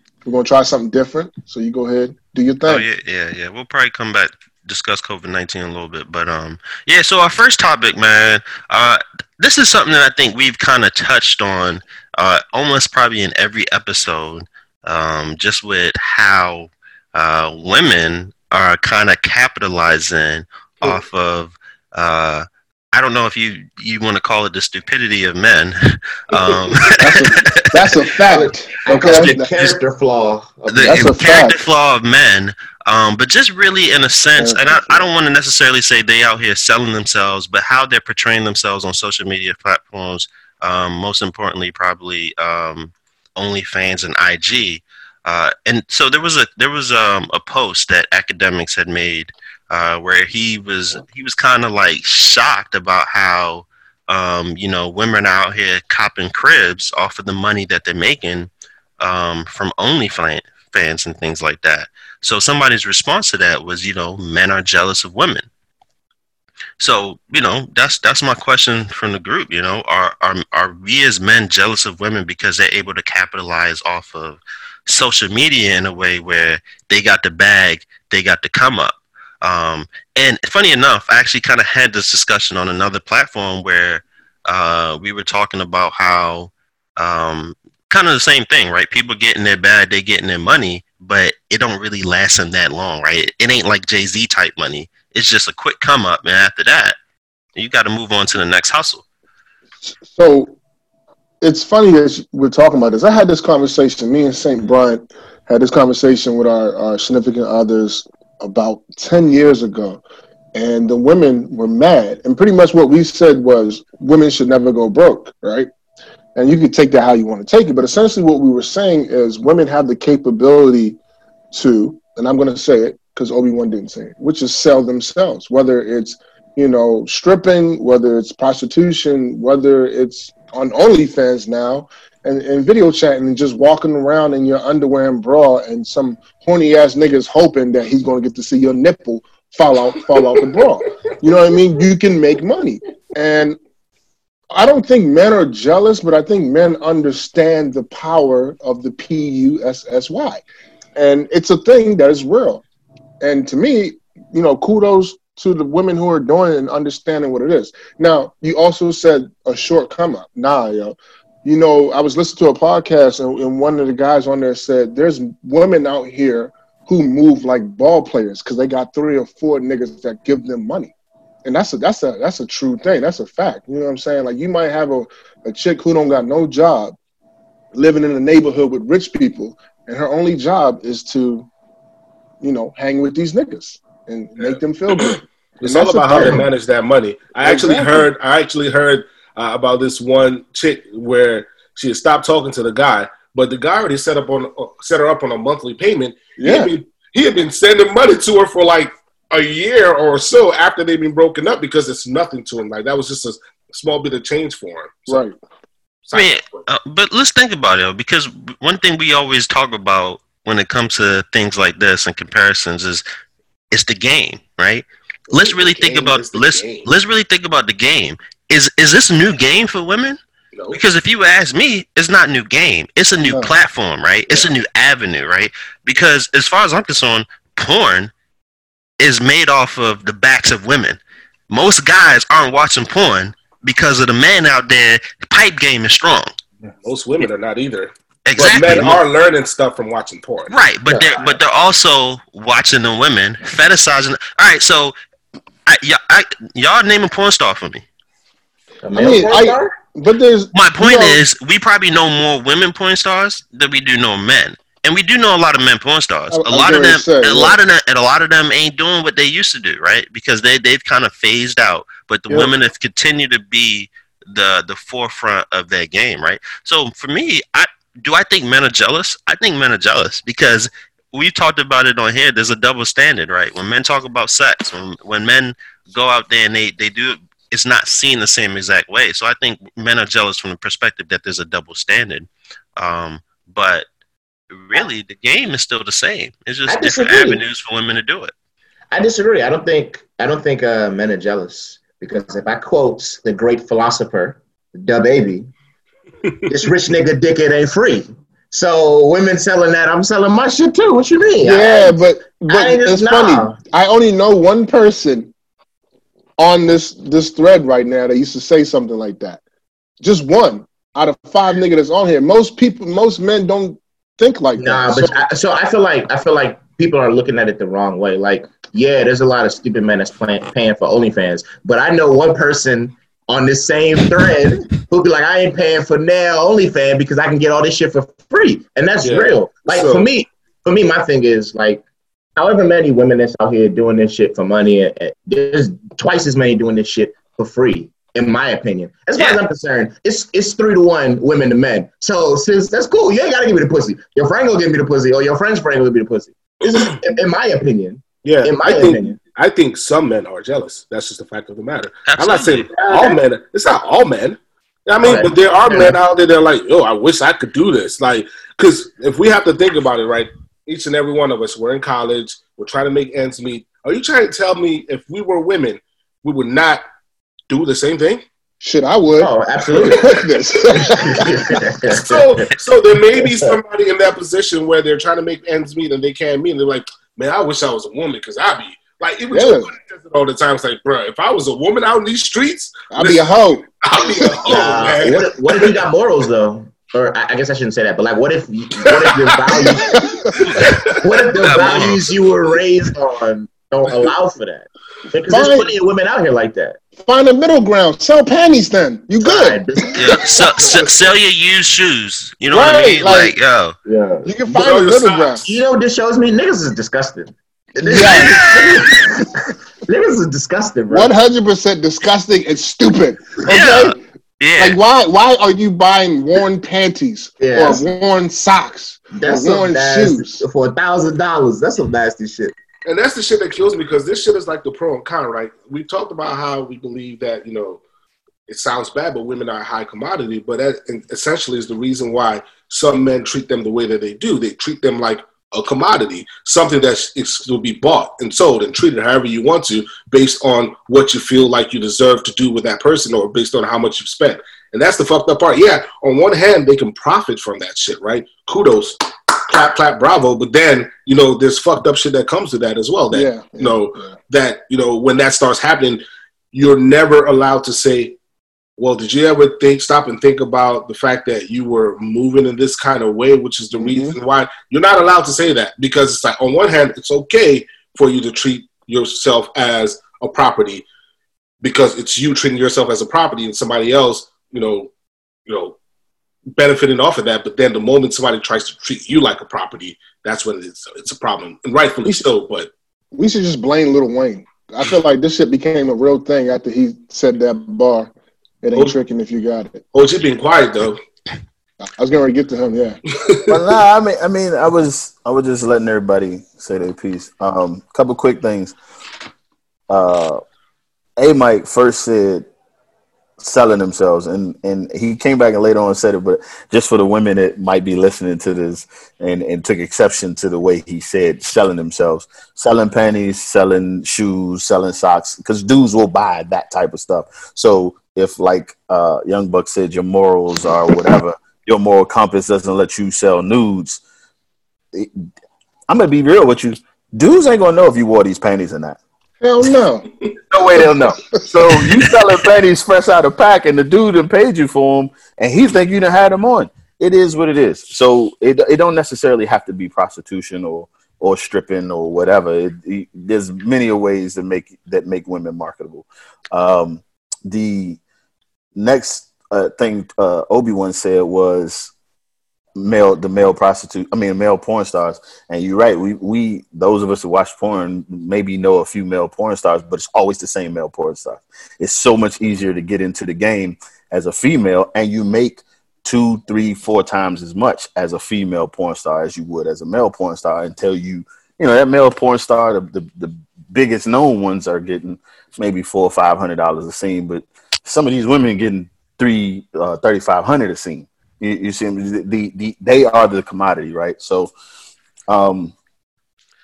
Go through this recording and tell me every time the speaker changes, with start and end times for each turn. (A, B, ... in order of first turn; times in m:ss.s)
0:00.2-0:02.8 A
0:02.7-0:28.0 B
0:26.9-0:29.5 A
0:28.3-0:31.1 C
0:28.8-0:29.8 B
0:30.7-0:31.6 A
0:30.7-1:05.5 B
0:34.4-0:35.1 A
1:06.8-1:37.0 B
1:37.6-1:39.0 B
1:39.9-1:40.6 A
1:41.4-1:50.0 A
1:50.6-1:55.7 A
1:56.4-2:01.0 A
2:01.5-2:23.6 A
2:24.5-2:30.4 A
2:31.0-2:32.6 A
2:33.2-2:50.9 A
2:51.4-2:57.0 A
2:57.7-3:01.5 A
3:02.4-3:06.4 A
3:05.0-3:25.2 D
3:07.4-3:08.1 A
3:16.4-3:16.7 A
3:25.1-3:25.4 A
3:26.1-3:26.6 D
3:26.1-3:33.0 B
3:33.7-3:40.2 B
3:35.3-3:36.9 D
3:40.6-3:40.8 D
3:40.7-3:48.1 B
3:43.2-3:43.5 A
3:49.0-3:51.0 B
3:51.5-3:56.3 B
3:56.8-4:00.6 D
3:58.3-3:59.0 B
4:00.5-4:05.0 B
4:00.9-4:01.4 C
4:05.7-4:07.8 B
4:08.8-4:09.8 C
4:08.9-4:11.2 A
4:10.5-4:43.9 B
4:16.3-4:17.6 A
4:44.5-4:48.3 B
4:46.7-4:47.4 C
4:48.9-4:55.5 C
4:56.5-5:03.6 C
5:01.4-5:05.3 A
5:06.4-5:09.4 A
5:10.0-5:15.2 A
5:14.6-5:31.8 C
5:29.0-5:30.1 D
5:32.4-5:49.2 C
5:48.2-6:06.8 D
5:52.1-5:52.7 B
5:52.8-5:53.2 C
5:55.0-5:56.0 C
6:07.5-6:08.2 D
6:08.6-6:11.3 A
6:09.2-6:10.2 C
6:11.0-6:12.5 C
6:11.9-6:23.2 D
6:13.1-6:13.6 C
6:19.3-6:19.7 A
6:22.9-6:25.1 A
6:23.8-6:25.8 D
6:24.5-6:36.8 C
6:28.8-6:29.7 D
6:29.7-6:30.3 A
6:30.4-6:31.0 D
6:30.4-6:30.8 B
6:31.4-6:32.0 B
6:35.3-6:35.7 A
6:37.0-6:40.7 A
6:39.2-6:40.8 C
6:40.0-6:43.8 B
6:42.5-6:43.4 A
6:43.9-6:44.8 C
6:44.2-6:45.4 A
6:44.8-6:45.4 D
6:45.4-6:51.1 C
6:47.8-6:48.5 A
6:50.9-6:54.0 A
6:53.5-6:54.8 B
6:54.6-7:00.4 A
6:57.4-6:57.8 C
6:59.1-7:02.5 C
7:02.9-7:07.8 D
7:08.5-7:38.2 D
7:33.1-7:34.2 A
7:38.8-7:50.8 D
7:43.8-7:44.2 A
7:51.6-7:54.9 D
7:55.5-7:55.8 D
7:56.6-8:02.7 D
8:03.2-8:08.1 A
8:08.6-8:09.8 A
8:09.9-8:11.0 D
8:11.9-8:13.0 A
8:13.2-8:13.6 D
8:13.5-8:18.8 E
8:19.9-8:20.4 E
8:21.2-8:22.5 E
8:23.4-8:44.0 E
8:44.9-8:45.3 E
8:45.9-8:49.0 E
8:49.4-8:50.1 A
8:50.5-9:08.0 E
9:08.8-9:11.9 E
9:12.8-9:44.5 E
9:45.3-9:45.8 E